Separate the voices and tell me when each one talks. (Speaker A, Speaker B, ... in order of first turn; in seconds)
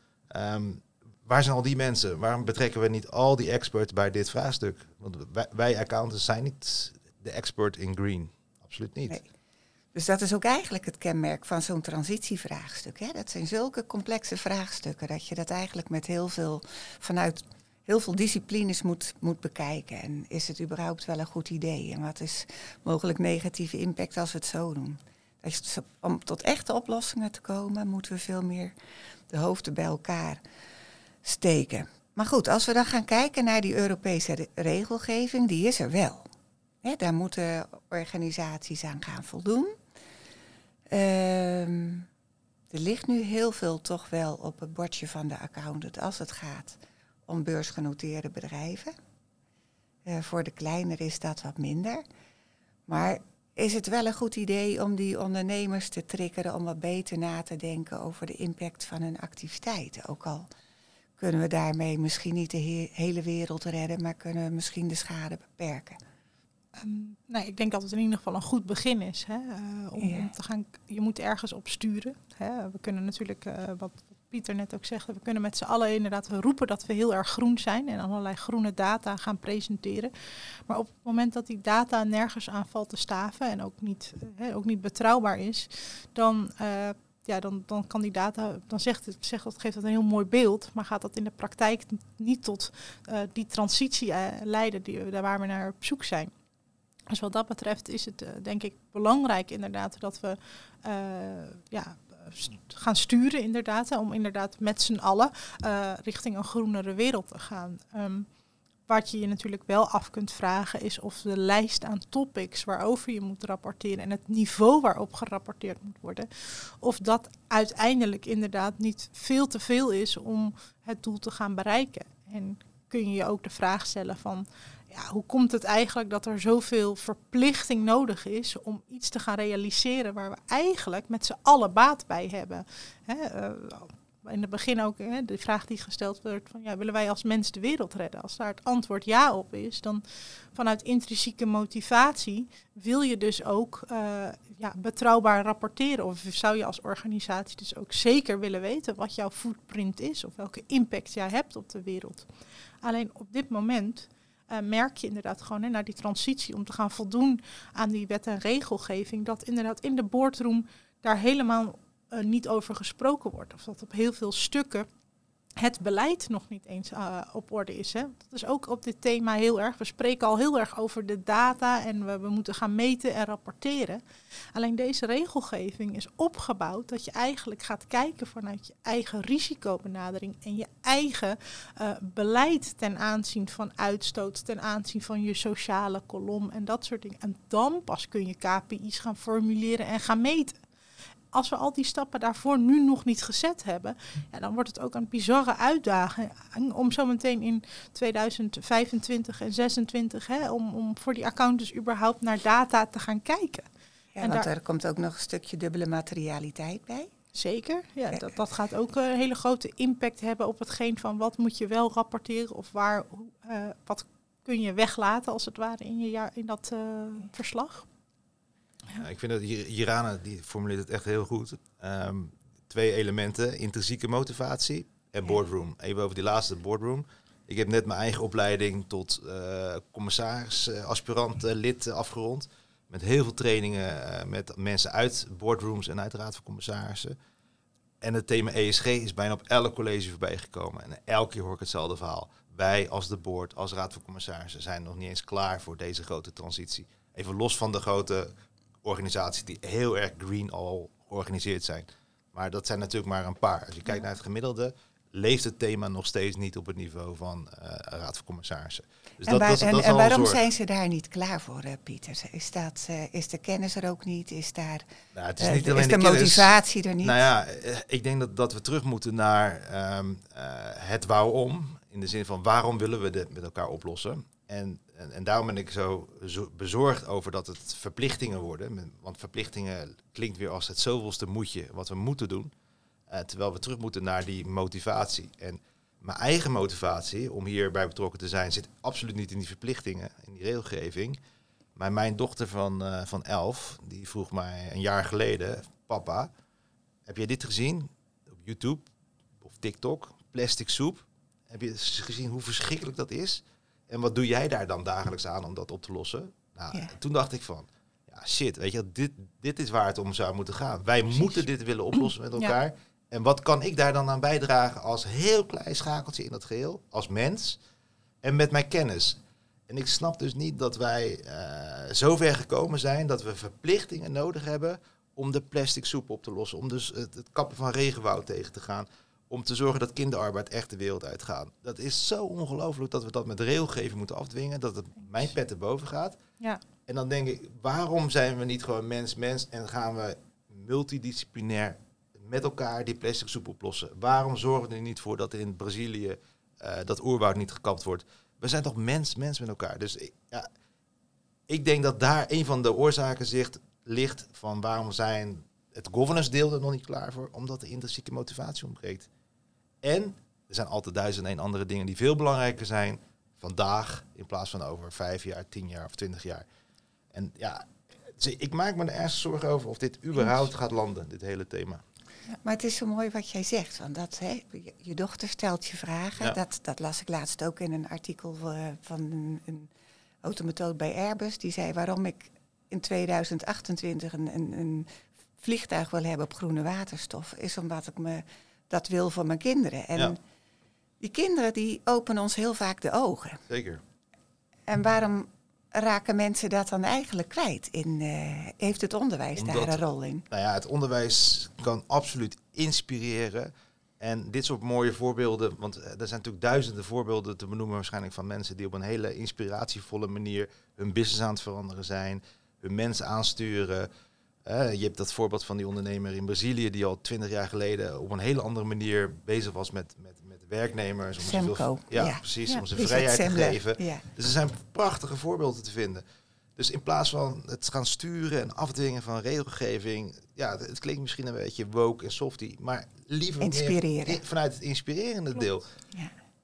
Speaker A: 0.3-9.2, 219.0-237.2, 238.0-260.4, 265.1-282.5, 283.1-291.2, 291.8-296.3, 297.1-298.9, 299.4-317.6, 318.2-336.2, 336.9-350.5, 351.5-359.1, 359.8-366.4, 367.1-371.8, 393.5-393.8, 399.4-413.9, 414.4-426.0, 426.6-435.7
Speaker B: 9.9-28.7, 29.3-30.4, 31.2-36.3, 36.8-39.7, 40.9-42.1, 42.7-49.0, 50.0-52.0, 52.9-60.5, 61.2-66.0, 70.0-70.3, 204.2-207.1, 259.2-267.2, 372.4-379.7, 380.2-390.2, 391.0-393.4, 394.7-400.2, 421.2-424.0, 433.4-434.2
Speaker C: 66.8-80.1, 80.7-96.3, 97.1-108.3, 108.9-152.3, 152.8-164.9, 165.6-174.0, 174.5-190.6, 191.3-203.7, 204.2-204.5, 207.3-217.8